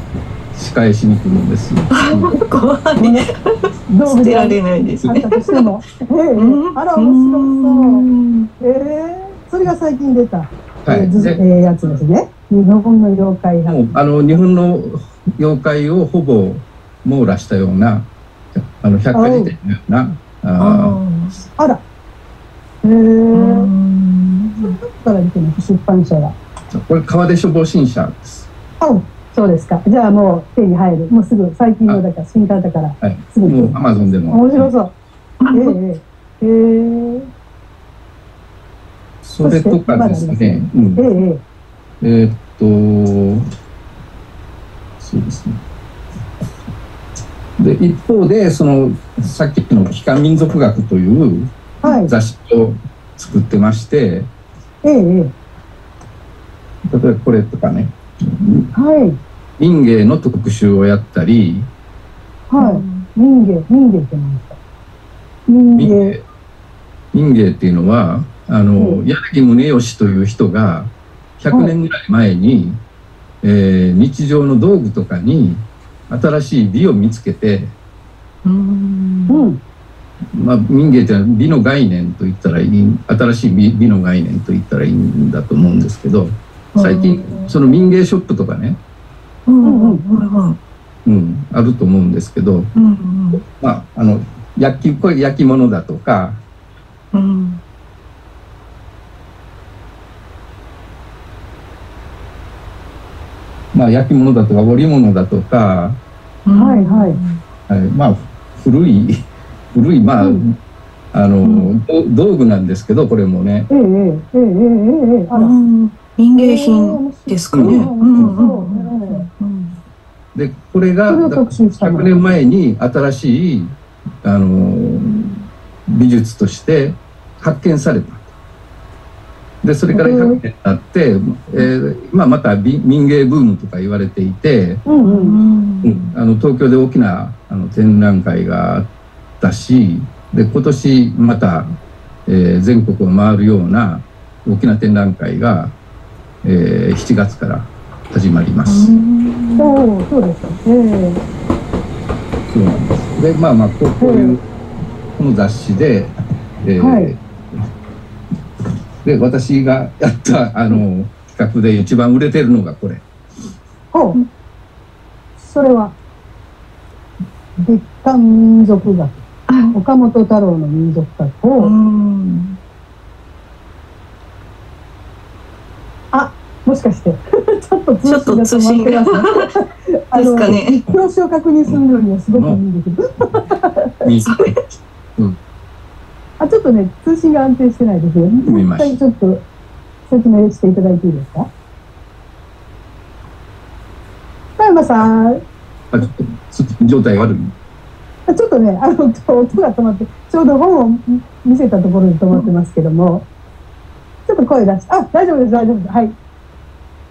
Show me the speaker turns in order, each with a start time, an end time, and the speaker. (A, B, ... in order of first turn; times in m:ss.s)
0:00.5-0:02.3 A
0:02.0-0:05.7 B
0:03.0-0:03.3 C
0:03.9-0:08.0 C
0:06.3-0:08.5 B
0:08.6-0:13.8 C
0:10.8-0:11.4 A
0:13.6-0:21.0 A
0:19.1-0:19.5 C
0:20.6-0:21.4 B
0:22.8-0:23.7 C
0:23.3-0:24.8 B
0:24.6-0:26.3 C
0:26.7-0:28.5 A
0:28.8-0:34.9 C
0:33.0-0:34.7 A
0:35.4-0:35.8 B
0:35.5-0:37.3 C
0:39.2-0:41.0 A
0:39.4-0:41.4 C
0:42.0-0:43.4 A
0:45.0-0:45.6 A
0:47.6-0:54.3 A
0:51.8-0:52.1 C
0:54.8-0:55.3 C
0:56.9-0:58.7 A
0:58.7-0:59.2 C
0:59.6-1:01.7 A
1:02.5-1:04.6 C
1:02.6-1:03.1 B
1:05.5-1:06.2 C
1:05.7-1:06.2 A
1:07.1-1:12.8 A
1:13.4-1:17.7 A
1:18.4-1:19.5 B
1:19.3-1:19.6 C
1:20.3-1:28.8 A
1:26.7-1:27.5 B
1:29.5-1:30.6 B
1:29.6-1:30.0 C
1:31.0-1:32.7 A
1:32.8-1:33.4 B
1:33.4-1:36.4 A
1:37.1-1:37.6 B
1:43.7-1:46.0 A
1:46.4-1:47.4 B
1:46.5-1:47.2 C
1:47.7-1:50.6 A
1:51.1-1:53.7 A
1:51.4-1:51.7 B
1:53.7-1:55.5 C
1:55.3-1:59.7 B
1:56.4-1:59.2 C
1:57.5-1:58.4 A
2:00.3-2:08.2 A
2:01.1-2:02.1 C
2:09.6-2:14.8 A
2:09.9-2:10.4 C
2:14.8-2:15.4 C
2:15.0-2:16.1 B
2:15.8-2:18.9 A
2:19.4-2:21.7 A
2:22.2-2:25.7 A
2:26.4-2:28.9 A
2:28.6-2:29.8 B
2:29.6-2:31.2 C
2:32.5-2:34.4 A
2:34.0-2:34.4 C
2:35.2-2:36.1 A
2:36.6-2:37.6 A
2:36.8-2:37.1 C
2:39.0-2:43.0 A
2:43.9-2:44.2 C
2:45.4-2:45.9 C
2:47.6-2:49.2 C
2:49.5-2:49.7 B
2:49.7-2:51.7 C
2:51.6-2:52.6 B
2:56.1-3:04.0 C
2:58.0-2:59.5 B
3:00.1-3:00.8 B
3:01.7-3:02.6 A
3:04.0-3:05.4 A
3:04.3-3:04.6 B
3:06.4-3:09.4 C
3:08.5-3:08.9 A
3:10.1-3:11.5 C
3:14.6-3:15.4 C
3:15.9-3:17.5 A
3:18.3-3:23.2 C
3:24.3-3:26.1 C